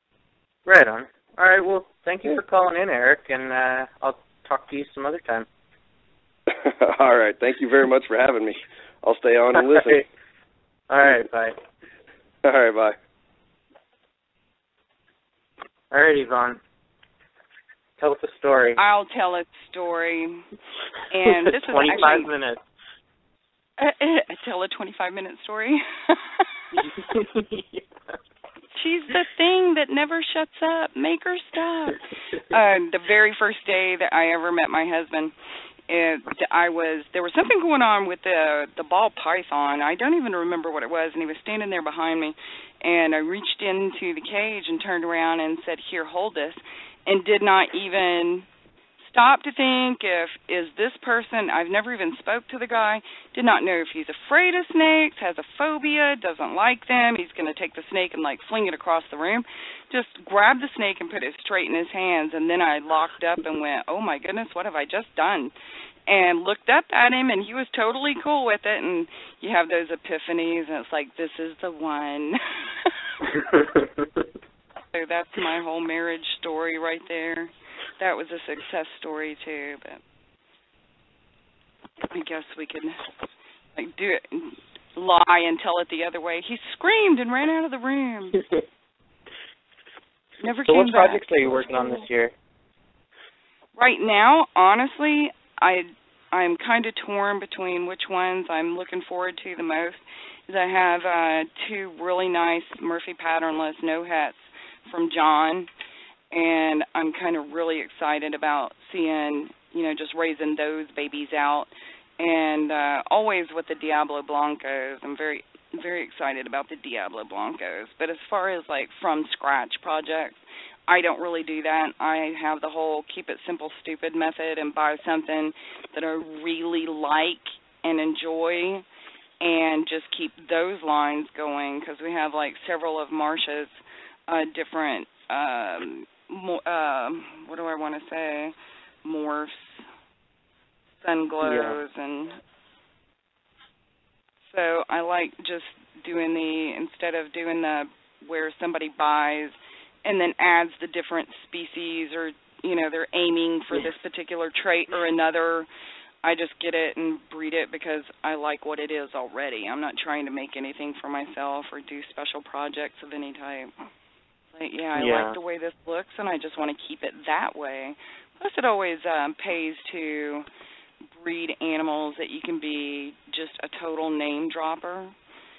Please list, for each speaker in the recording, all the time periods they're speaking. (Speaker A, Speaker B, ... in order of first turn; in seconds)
Speaker A: 0.7-5.5, 9.6-10.0, 10.9-11.6, 15.9-16.6, 18.0-18.8, 21.2-22.6, 26.8-27.8, 90.7-92.3, 141.4-141.8, 164.9-165.3
Speaker B: 6.5-10.0, 12.4-12.9
Speaker C: 18.8-20.4, 21.1-22.3, 23.8-27.1, 28.7-35.3, 35.9-48.5, 49.0-65.5, 66.1-73.4, 74.9-80.0, 82.1-83.0, 83.8-88.4, 90.4-92.0, 93.8-105.7, 106.3-128.8, 129.4-139.8, 141.0-142.4, 144.5-155.7, 156.2-163.7, 164.5-170.4, 171.1-175.1